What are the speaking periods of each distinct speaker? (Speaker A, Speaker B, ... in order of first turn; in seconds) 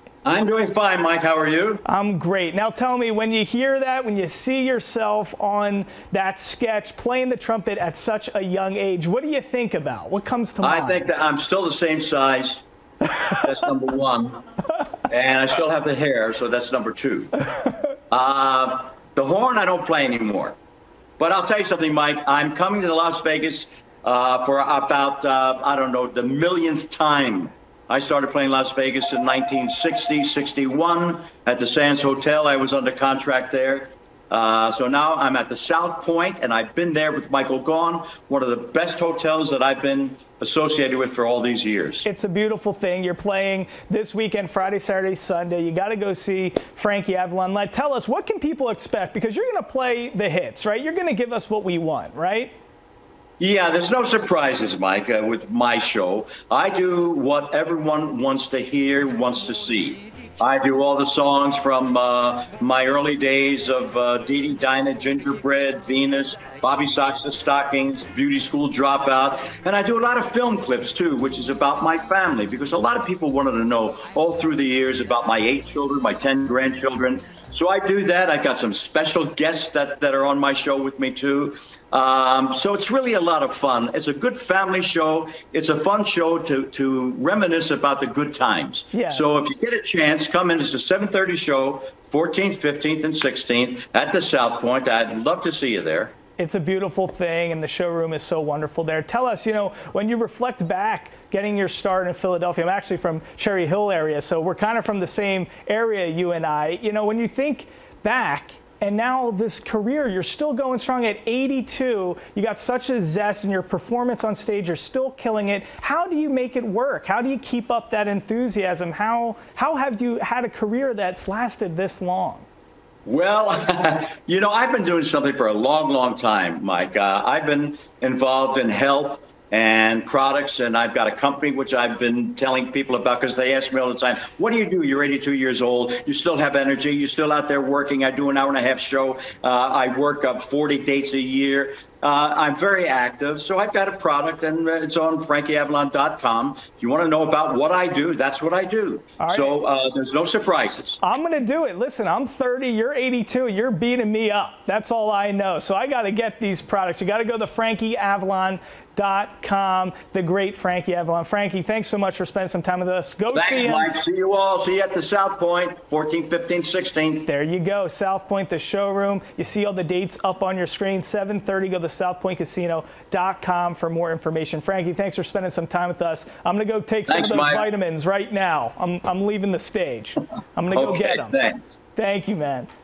Speaker A: 0.2-1.8, 10.6-12.6, 13.4-14.4, 15.1-17.3, 18.1-20.6, 21.2-42.0, 53.4-96.1, 123.0-151.0, 163.3-167.3, 177.1-177.7, 180.7-181.8
Speaker B: 1.8-11.1, 42.0-52.5, 88.9-89.3, 96.4-122.5, 149.2-149.6, 151.0-163.9, 167.2-181.4, 182.0-182.7